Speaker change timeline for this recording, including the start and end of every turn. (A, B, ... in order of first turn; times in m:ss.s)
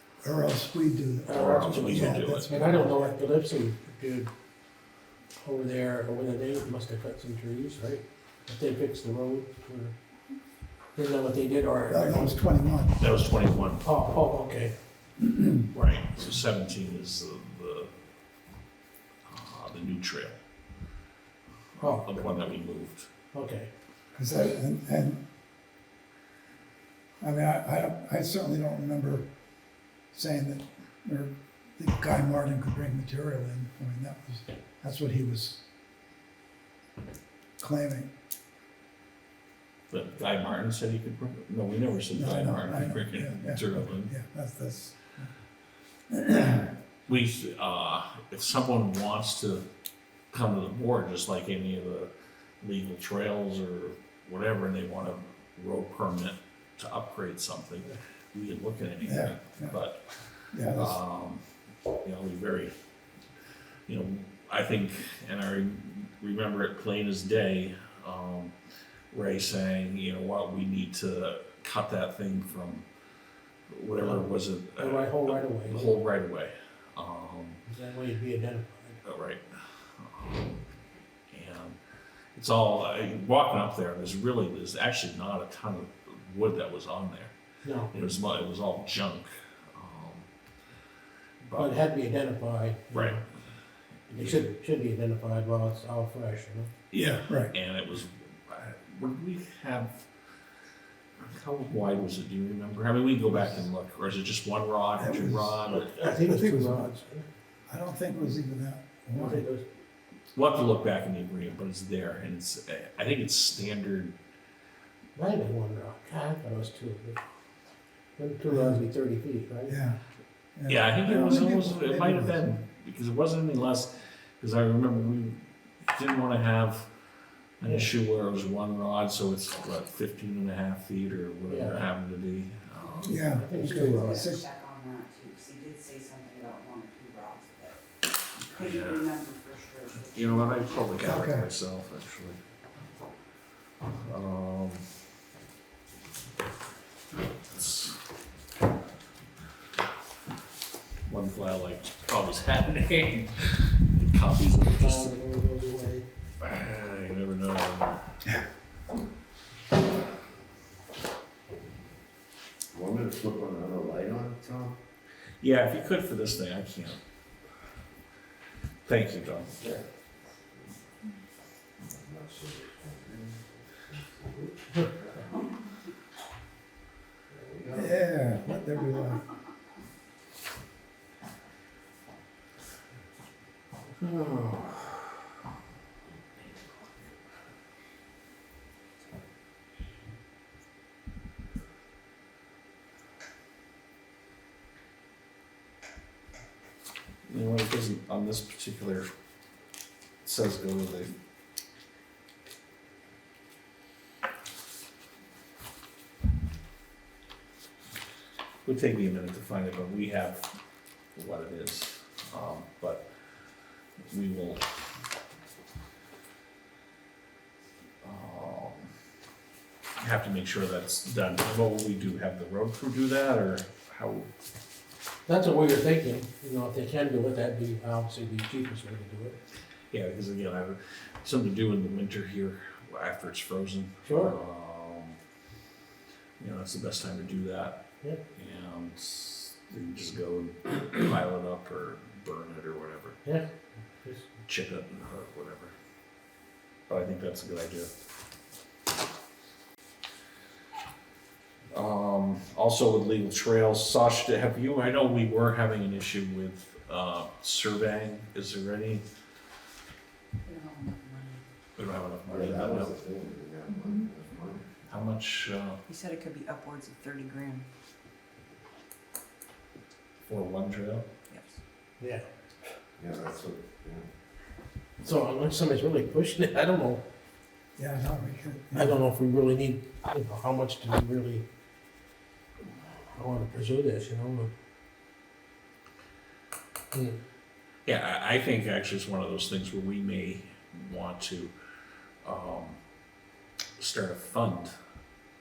0:00.2-0:03.2 A
0:01.2-0:04.3 B
0:01.3-0:02.5 C
0:05.4-0:10.0 B
0:11.0-0:12.4 B
0:11.9-0:13.0 A
0:13.0-0:13.8 C
0:13.8-0:14.8 B
0:15.2-0:15.6 A
0:15.7-0:18.0 C
0:19.2-0:20.4 C
0:21.8-0:23.1 C
0:21.8-0:22.3 B
0:23.3-0:23.7 B
0:24.1-0:25.2 A
0:27.2-0:29.3 A
0:30.1-0:35.6 A
0:37.6-0:38.1 A
0:39.9-0:44.1 C
0:42.1-0:45.3 A
0:46.1-0:46.7 A
0:47.1-0:49.7 C
0:50.3-0:52.1 C
0:52.6-1:01.4 C
0:59.0-0:59.8 A
1:00.5-1:01.0 A
1:02.0-1:02.7 C
1:03.9-1:08.5 C
1:09.1-1:12.8 C
1:13.7-1:17.6 C
1:14.0-1:16.0 B
1:17.7-1:19.0 B
1:19.0-1:20.6 C
1:21.3-1:21.8 C
1:22.3-1:27.3 C
1:27.6-1:27.9 B
1:27.9-1:30.3 C
1:31.4-1:31.8 C
1:31.5-1:33.2 B
1:32.9-1:33.2 C
1:34.1-1:36.7 B
1:34.1-1:34.5 C
1:36.9-1:40.0 C
1:37.0-1:37.5 A
1:41.2-1:45.9 C
1:45.0-1:45.6 A
1:45.7-1:47.2 B
1:46.2-1:46.9 A
1:47.7-1:49.4 A
1:49.2-1:49.7 B
1:50.3-1:54.2 C
1:55.1-1:57.2 B
1:58.2-1:59.8 B
1:58.5-1:58.8 A
1:59.7-2:00.0 A
2:00.6-2:02.5 A
2:00.7-2:06.9 C
2:07.6-2:13.2 C
2:07.6-2:07.9 B
2:11.5-2:11.8 B
2:13.0-2:14.2 B
2:13.0-2:14.4 A
2:13.9-2:17.8 D
2:18.4-2:21.2 D
2:18.5-2:19.1 C
2:20.1-2:22.4 C
2:21.0-2:21.5 A
2:23.9-2:24.9 C
2:27.5-2:28.0 C
2:31.1-2:35.1 C
2:34.6-2:36.0 B
2:36.4-2:38.1 C
2:42.7-2:44.8 E
2:45.4-2:47.0 C
2:48.8-2:49.5 C
2:49.6-2:49.8 E
2:51.8-2:55.3 E
2:57.3-2:58.0 E
2:57.7-2:59.2 A
3:04.0-3:05.1 C
3:17.3-3:19.1 C
3:20.2-3:21.1 C
3:28.6-3:30.5 C
3:31.2-3:33.0 C
3:34.0-3:34.6 C
3:38.0-3:38.9 C
3:40.0-3:44.3 C
3:45.2-3:49.4 B
3:49.9-3:55.2 C
3:54.0-3:54.4 B
3:56.4-4:03.2 C
4:04.0-4:04.3 B
4:04.4-4:05.7 C
4:06.9-4:07.9 C
4:11.7-4:19.0 C
4:20.4-4:21.4 D
4:21.8-4:23.0 C
4:22.3-4:24.7 E
4:24.9-4:25.8 C
4:25.9-4:27.6 D
4:30.2-4:31.1 C
4:31.3-4:31.6 D
4:32.0-4:32.2 B
4:33.0-4:34.1 E
4:35.0-4:37.0 B
4:37.8-4:39.0 A
4:38.7-4:41.4 B
4:43.1-4:44.5 B
4:46.9-4:47.2 B
4:47.8-4:51.5 C
4:52.2-4:52.8 C
4:53.8-4:54.7 C